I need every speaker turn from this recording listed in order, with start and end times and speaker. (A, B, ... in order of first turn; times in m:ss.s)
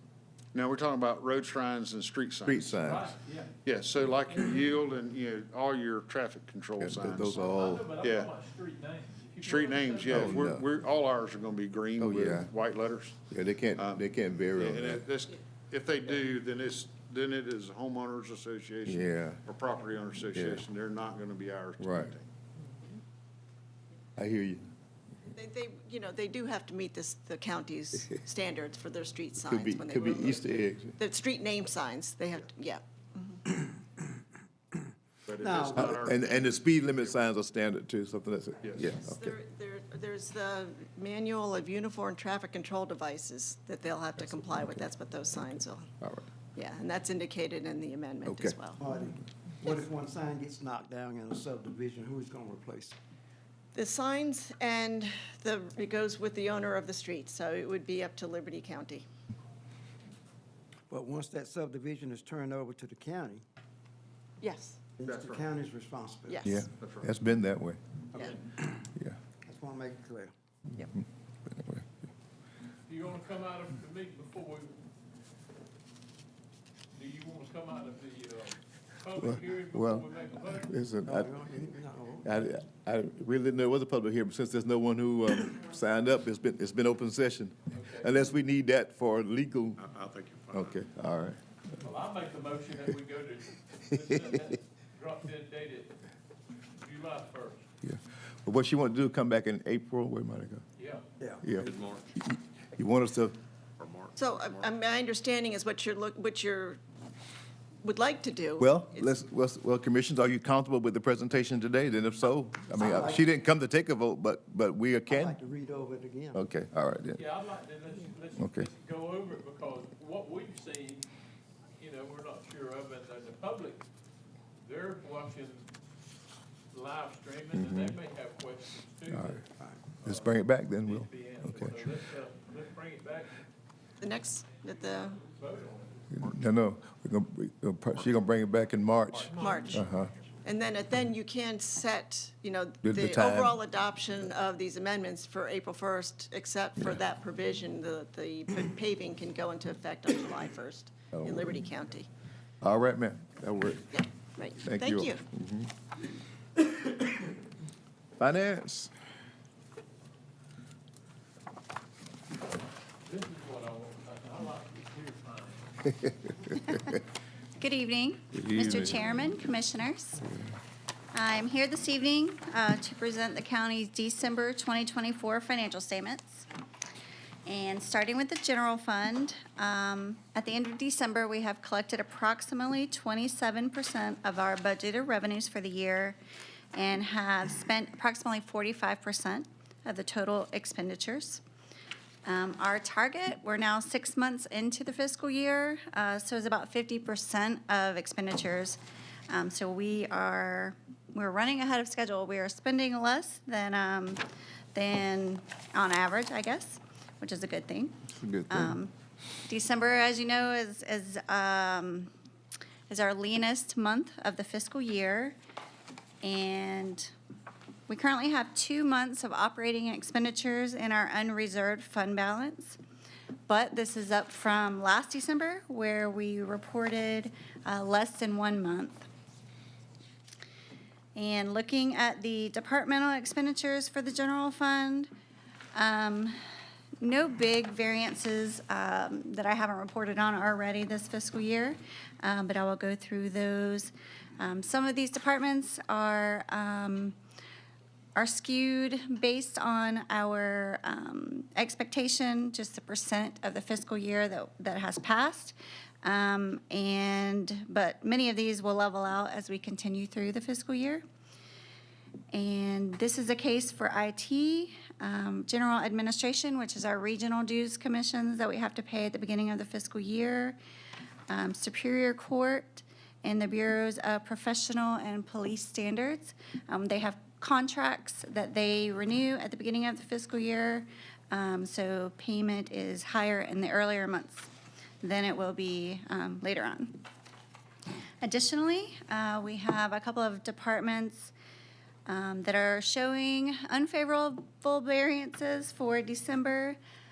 0:00.5-0:02.8 A
0:02.5-0:03.1 B
0:02.8-0:03.5 C
0:03.7-0:08.3 A
0:06.8-0:07.9 B
0:07.2-0:10.5 C
0:09.4-0:13.2 A
0:10.1-0:10.6 B
0:12.0-0:12.5 B
0:13.3-0:15.0 B
0:13.7-0:22.3 A
0:18.9-0:19.4 B
0:20.3-0:20.6 B
0:21.8-0:22.1 B
0:24.2-0:24.7 B
0:25.4-0:30.5 D
0:29.4-0:31.0 B
0:30.0-0:30.4 C
0:31.0-0:33.4 D
0:35.3-0:37.3 A
0:35.4-0:36.0 E
0:35.7-0:39.3 B
0:38.6-0:39.0 A
0:39.0-0:45.9 D
0:46.0-0:46.3 B
0:46.6-0:48.8 D
0:48.2-0:48.6 B
0:48.8-0:53.0 E
0:53.7-0:59.1 D
1:00.9-1:03.4 E
1:04.4-1:04.8 D
1:05.0-1:06.7 E
1:05.0-1:05.5 A
1:06.3-1:06.6 D
1:06.4-1:07.8 B
1:06.7-1:07.1 A
1:08.1-1:08.8 E
1:09.4-1:10.3 E
1:11.5-1:11.9 B
1:12.9-1:14.7 C
1:16.9-1:20.7 C
1:19.2-1:21.6 B
1:21.0-1:22.4 E
1:22.2-1:29.8 B
1:27.7-1:28.2 C
1:29.8-1:30.8 A
1:30.5-1:31.4 B
1:31.8-1:36.0 C
1:36.8-1:37.7 C
1:37.8-1:40.6 B
1:40.8-1:41.0 C
1:41.4-1:43.4 B
1:41.5-1:42.1 A
1:43.8-1:44.7 A
1:44.2-1:46.8 D
1:47.8-1:49.0 D
1:48.6-1:55.4 B
1:52.8-1:53.3 E
1:55.1-1:56.4 E
1:56.3-1:57.2 B
1:57.2-2:01.1 C
1:58.4-1:58.7 B
2:01.8-2:03.8 C
2:04.6-2:05.7 C
2:06.7-2:09.5 C
2:07.5-2:08.0 B
2:09.1-2:09.4 B
2:10.0-2:13.4 C
2:10.0-2:11.8 B
2:14.0-2:15.2 D
2:14.6-2:16.1 C
2:16.1-2:16.6 A
2:16.2-2:20.1 B
2:19.1-2:19.4 A
2:19.4-2:20.2 C
2:19.4-2:19.8 D
2:20.4-2:32.1 D
2:22.8-2:23.6 B
2:31.2-2:31.4 B
2:32.6-2:33.9 B
2:33.9-2:35.2 D
2:34.6-2:35.7 B
2:38.2-2:38.9 B
2:43.1-2:46.1 C
2:46.6-2:46.9 F
2:47.6-2:50.3 F
2:48.3-2:49.0 B
2:51.1-2:56.5 F
2:57.5-3:06.2 F
3:06.7-3:11.4 F
3:12.3-3:24.2 F
3:24.8-3:28.9 F
3:28.1-3:28.8 B
3:29.5-3:32.1 F
3:32.9-3:35.4 F
3:36.2-3:37.1 F
3:37.9-3:42.8 F
3:43.5-3:49.1 F
3:51.2-3:55.1 F
3:55.7-3:56.4 F
3:57.0-4:07.2 F
4:08.2-4:21.0 F
4:22.3-4:30.6 F
4:31.3-4:44.5 F
4:45.0-4:47.0 F
4:48.2-4:51.3 F
4:52.1-4:56.8 F